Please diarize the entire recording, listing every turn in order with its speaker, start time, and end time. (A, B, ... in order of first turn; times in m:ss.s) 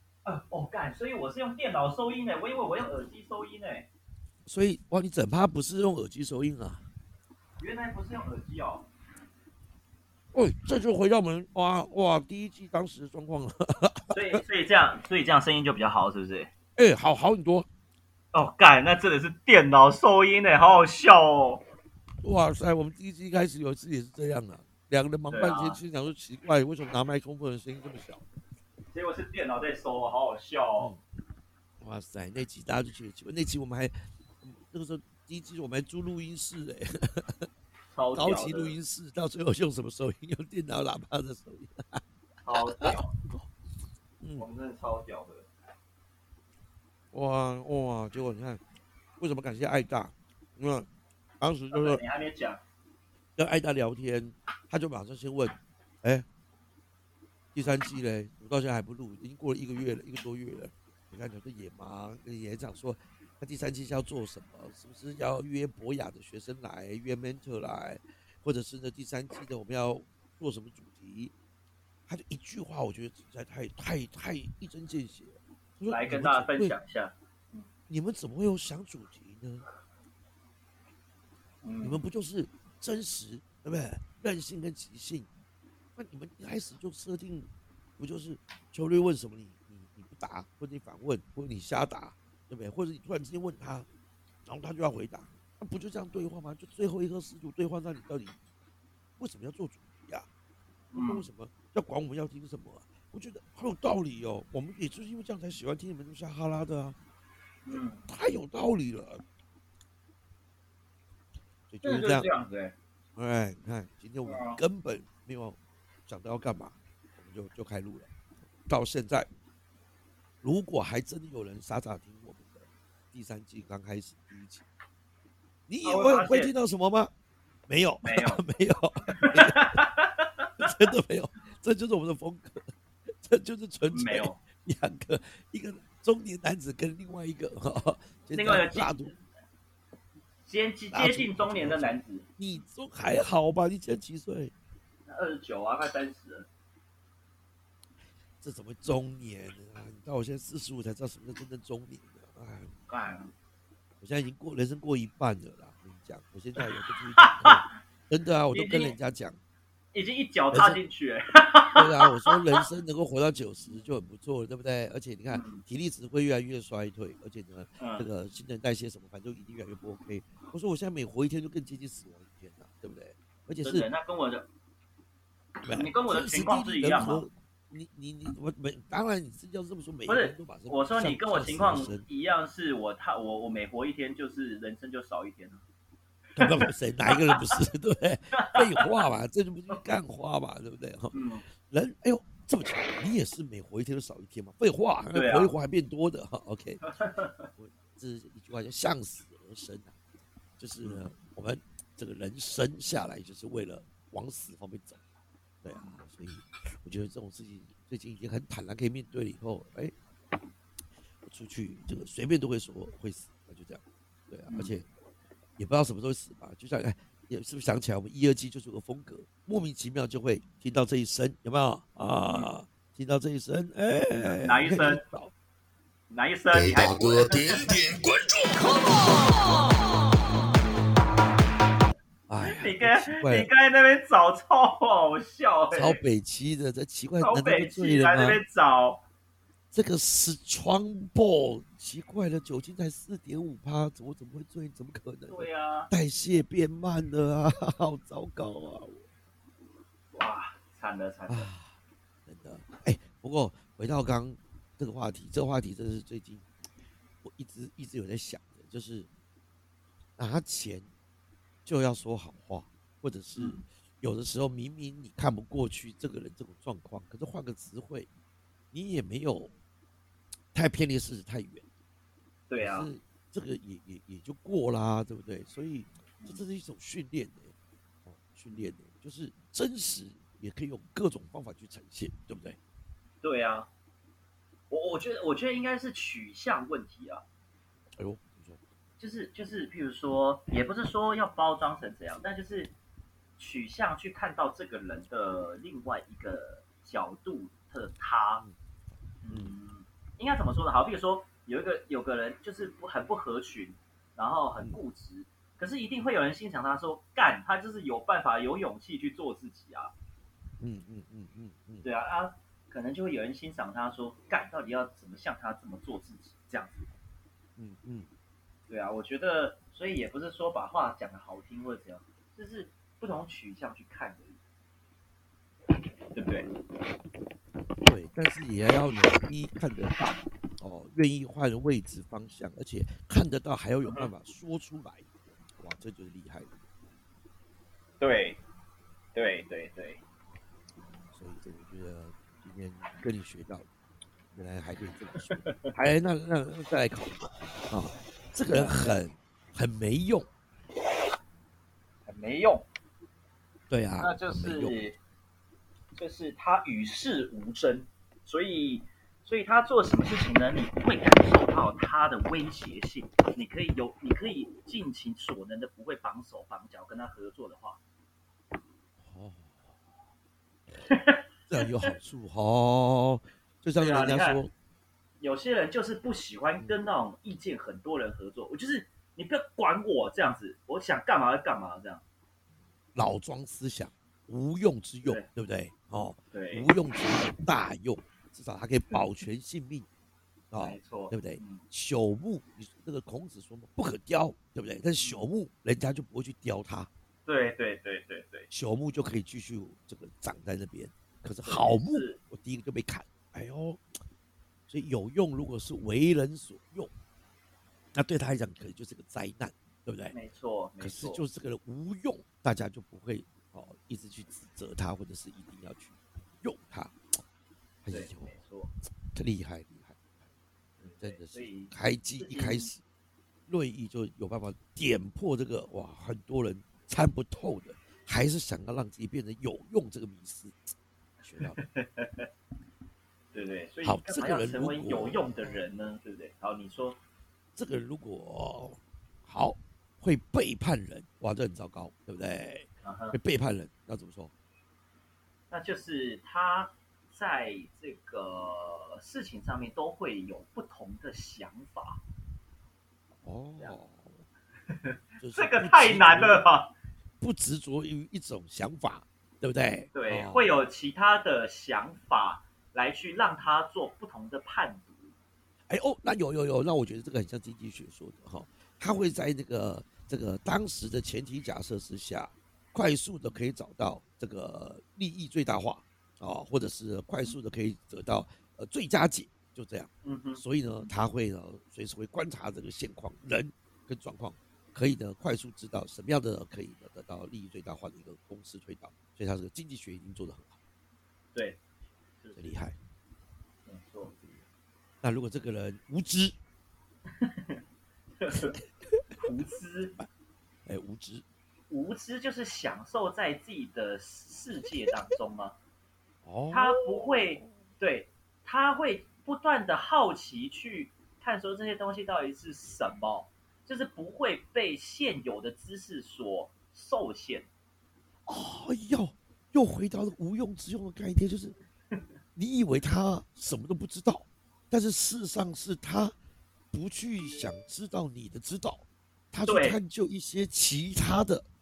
0:00.2-0:03.9 A
0:04.4-0:06.8 B
0:07.6-0:08.9 A
0:10.3-0:14.4 B
0:14.1-0:16.5 A
0:16.8-0:17.7 B
0:18.3-0:21.6 A
0:22.2-0:28.3 B
0:25.3-0:25.8 A
0:28.9-0:30.9 A
0:31.8-0:37.5 B
0:37.9-0:38.7 A
0:38.1-0:42.0 B
0:42.4-0:43.1 A
0:42.5-0:43.0 B
0:44.2-0:44.4 B
0:44.4-0:45.5 A
0:47.1-0:48.6 B
0:49.2-0:50.9 B
0:51.4-0:52.0 B
0:51.7-0:52.6 A
0:53.4-0:56.2 B
0:57.5-1:11.3 B
1:12.1-1:16.8 B
1:15.9-1:17.7 A
1:17.9-1:19.6 B
1:21.6-1:22.0 A
1:21.8-1:25.3 B
1:26.0-1:33.9 B
1:34.4-1:38.3 B
1:39.2-1:40.3 B
1:40.9-1:41.2 A
1:41.0-1:47.0 B
1:47.6-1:48.0 A
1:48.1-1:49.2 B
1:51.7-1:52.3 B
1:51.8-1:52.7 A
1:53.2-1:58.1 B
1:54.2-1:54.6 A
1:58.6-1:59.3 B
2:00.4-2:04.6 B
2:05.7-2:07.1 B
2:05.8-2:06.5 A
2:07.7-2:09.8 B
2:08.0-2:08.4 A
2:09.1-2:10.7 A
2:10.6-2:19.1 B
2:13.9-2:14.4 A
2:18.3-2:19.2 A
2:20.4-2:22.3 A
2:20.9-2:24.5 B
2:25.0-2:26.5 A
2:28.4-2:32.7 B
2:32.9-2:33.3 A
2:34.0-2:39.4 B
2:37.2-2:37.7 A
2:38.5-2:39.0 A
2:39.9-2:42.6 A
2:40.5-2:40.8 B
2:41.7-2:53.9 B
2:45.3-2:45.6 A
2:47.8-2:48.1 A
2:53.6-2:54.5 A
2:55.6-2:57.3 A
2:55.6-3:02.0 B
3:00.1-3:05.6 A
3:06.4-3:16.9 B
3:06.4-3:07.4 A
3:08.3-3:09.0 A
3:11.1-3:11.4 A
3:15.1-3:15.5 A
3:16.8-3:17.5 A
3:17.6-3:19.9 B
3:20.6-3:25.0 B
3:20.8-3:21.1 A
3:25.6-3:29.9 B
3:25.7-3:26.0 A
3:31.2-3:34.8 B
3:34.5-3:34.7 A
3:35.6-3:45.3 B
3:42.2-3:42.5 A
3:44.2-3:45.0 A
3:46.1-3:47.7 A
3:46.5-3:49.7 C
3:52.3-3:53.5 B
3:52.4-3:56.0 A
3:55.7-3:58.4 B
3:57.2-3:59.0 A
3:59.7-4:09.0 B
4:05.3-4:05.9 A
4:10.1-4:11.5 A
4:11.3-4:11.7 B
4:12.3-4:16.4 B
4:17.2-4:19.1 B
4:20.2-4:20.9 B
4:21.6-4:28.1 B
4:23.4-4:23.6 A
4:28.7-4:29.5 B
4:30.5-4:31.6 B
4:32.5-4:32.9 A
4:32.6-4:37.5 B
4:38.0-4:42.6 B
4:43.2-4:43.7 A
4:44.7-4:47.2 A
4:48.0-4:48.6 B
4:49.0-4:52.7 A
4:53.4-4:58.4 A
4:59.2-5:09.9 A
4:59.3-4:59.5 B
5:10.6-5:11.8 B
5:11.8-5:16.9 A
5:17.6-5:18.1 B
5:18.7-5:24.4 A
5:26.1-5:26.5 A
5:27.8-5:35.0 B
5:33.8-5:34.1 A
5:35.6-5:36.5 B
5:38.0-5:38.4 A
5:39.1-5:40.0 A
5:41.1-5:43.6 B
5:44.3-5:50.3 B
5:45.1-5:45.7 A
5:48.5-5:48.8 A
5:52.0-5:52.6 A
5:53.7-5:54.8 B
5:54.0-5:55.0 A
5:55.9-6:07.8 A
6:09.0-6:09.6 B
6:10.9-6:11.9 A
6:11.5-6:14.5 B
6:13.8-6:14.4 A
6:15.2-6:22.0 A
6:22.9-6:29.9 B
6:26.3-6:26.7 A
6:30.5-6:36.9 B
6:30.6-6:31.6 A
6:35.0-6:35.2 A
6:37.2-6:38.5 A
6:38.5-6:43.8 B
6:41.4-6:42.2 A
6:44.7-6:46.9 B
6:47.9-6:50.1 B
6:50.1-6:51.2 A
6:50.8-6:57.0 B
6:57.8-6:58.4 B
6:57.9-6:58.7 A
6:59.1-7:00.2 B
7:00.8-7:02.8 B
7:00.8-7:02.7 A
7:03.5-7:10.7 B
7:11.2-7:11.6 B
7:11.4-7:12.3 A
7:13.3-7:17.0 A
7:13.8-7:15.3 B
7:17.5-7:24.3 B
7:22.8-7:23.2 A
7:25.5-7:32.0 A
7:33.2-7:34.1 B
7:34.7-7:36.7 A
7:35.2-7:36.4 B
7:37.2-7:40.5 B
7:39.9-7:45.1 A
7:45.7-8:10.6 B
8:00.0-8:00.4 A
8:11.3-8:11.6 A
8:12.2-8:12.5 A
8:12.4-8:12.8 B
8:13.7-8:14.1 A
8:14.1-8:14.4 B
8:15.0-8:16.4 B
8:17.2-8:17.6 A
8:18.2-8:18.6 A
8:19.2-8:19.9 A
8:20.6-8:21.2 B
8:21.7-8:25.6 A
8:26.2-8:27.5 B
8:26.5-8:37.5 A
8:38.2-8:41.6 B
8:42.4-8:46.1 B
8:46.7-8:51.4 B
8:49.4-8:49.8 A